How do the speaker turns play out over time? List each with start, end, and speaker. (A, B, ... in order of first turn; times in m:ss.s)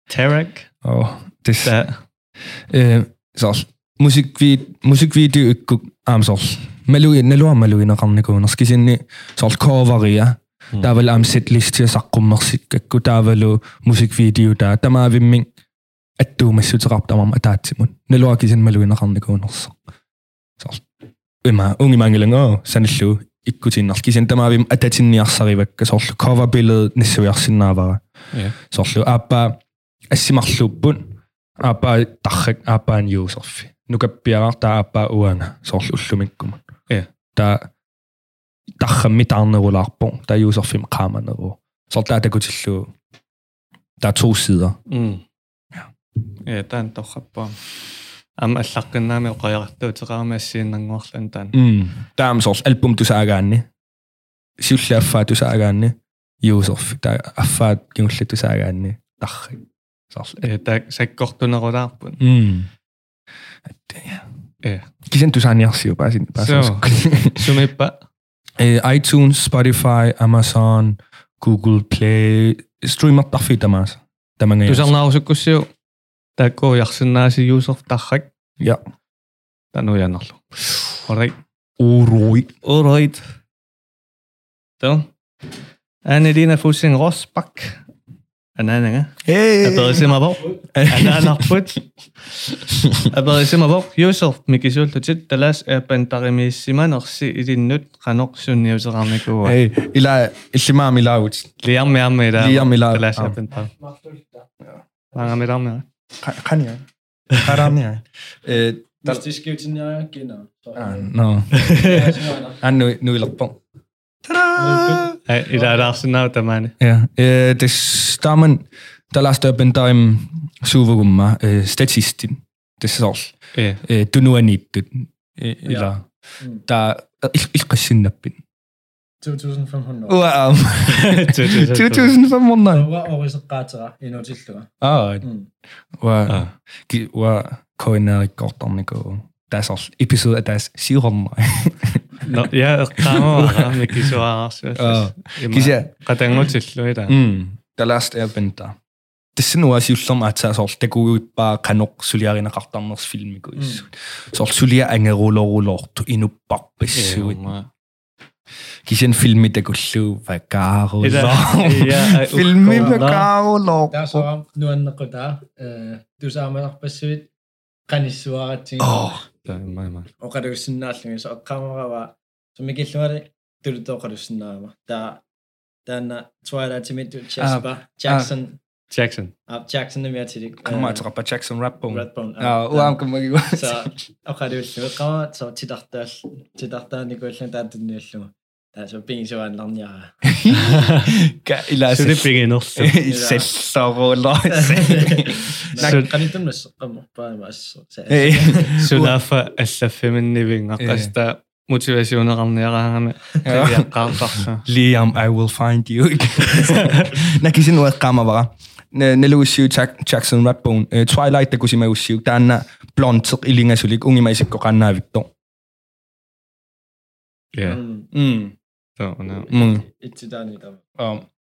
0:00.1-0:00.7 A
0:00.8-0:01.8 B
0:01.6-0:02.0 A
0:02.7-0:15.5 B
0:16.2-0:19.8 B
0:20.6-0:20.9 B
0:21.4-0:28.0 B
0:28.6-0:29.6 B
0:30.1-0:36.6 B
0:37.4-0:37.7 B
0:38.8-0:42.9 B
0:44.0-0:44.8 B
0:44.9-0:45.2 A
0:46.5-0:47.6 A
0:48.4-0:51.6 A
0:51.5-0:53.7 B
0:54.6-1:00.5 B
1:00.4-1:02.2 A
1:02.2-1:02.7 B
1:03.7-1:04.3 B
1:05.1-1:07.5 B
1:06.4-1:08.0 A
1:08.6-1:14.9 B
1:14.7-1:15.7 A
1:16.4-1:18.3 A
1:19.7-1:21.4 A
1:21.8-1:22.5 B
1:22.6-1:23.2 A
1:24.8-1:25.1 A
1:26.1-1:27.8 A
1:28.6-1:31.8 A
1:29.2-1:30.1 B
1:30.8-1:31.5 B
1:33.0-1:39.6 A
1:39.4-1:41.5 B
1:41.6-1:43.7 A
1:42.4-1:43.4 B
1:43.6-1:44.4 C
1:45.2-1:45.9 A
1:46.2-1:49.2 B
1:49.0-1:51.1 C
1:50.8-1:52.0 B
1:51.5-1:52.1 A
1:51.7-1:52.6 C
1:52.6-1:53.6 B
1:54.2-1:55.2 B
1:54.6-1:56.0 C
1:55.3-1:56.7 A
1:56.8-2:06.0 B
2:03.6-2:03.8 A
2:05.7-2:06.6 C
2:06.7-2:08.4 B
2:09.2-2:10.3 C
2:10.1-2:12.9 B
2:10.9-2:12.2 A
2:12.7-2:15.5 C
2:14.8-2:15.2 B
2:16.0-2:22.5 B
2:22.3-2:27.2 A
2:23.0-2:24.1 B
2:24.8-2:25.9 B
2:27.1-2:28.8 B
2:29.4-2:37.4 B
2:33.6-2:33.8 C
2:36.9-2:37.7 A
2:38.9-2:44.3 B
2:41.0-2:43.3 A
2:42.8-2:43.2 C
2:43.9-2:47.3 C
2:47.9-2:49.2 C
2:48.8-2:49.2 B
2:49.5-2:50.1 A
2:50.2-2:55.2 C
2:55.9-2:58.6 C
2:57.4-2:58.3 B
2:58.9-2:59.3 A
2:59.5-3:01.0 C
3:00.6-3:03.9 B
3:01.9-3:10.3 C
3:10.2-3:16.1 B
3:10.5-3:11.2 A
3:11.9-3:13.0 A
3:13.0-3:13.5 C
3:14.5-3:18.8 C
3:15.8-3:16.1 A
3:18.1-3:19.2 B
3:18.8-3:24.6 A
3:20.8-3:21.1 B
3:23.4-3:35.3 B
3:26.8-3:27.1 A
3:37.5-3:37.8 A
3:37.6-3:38.1 C
3:38.1-3:38.6 B
3:39.0-3:39.5 A
3:39.5-3:39.8 B
3:39.8-3:40.9 C
3:41.0-3:41.2 B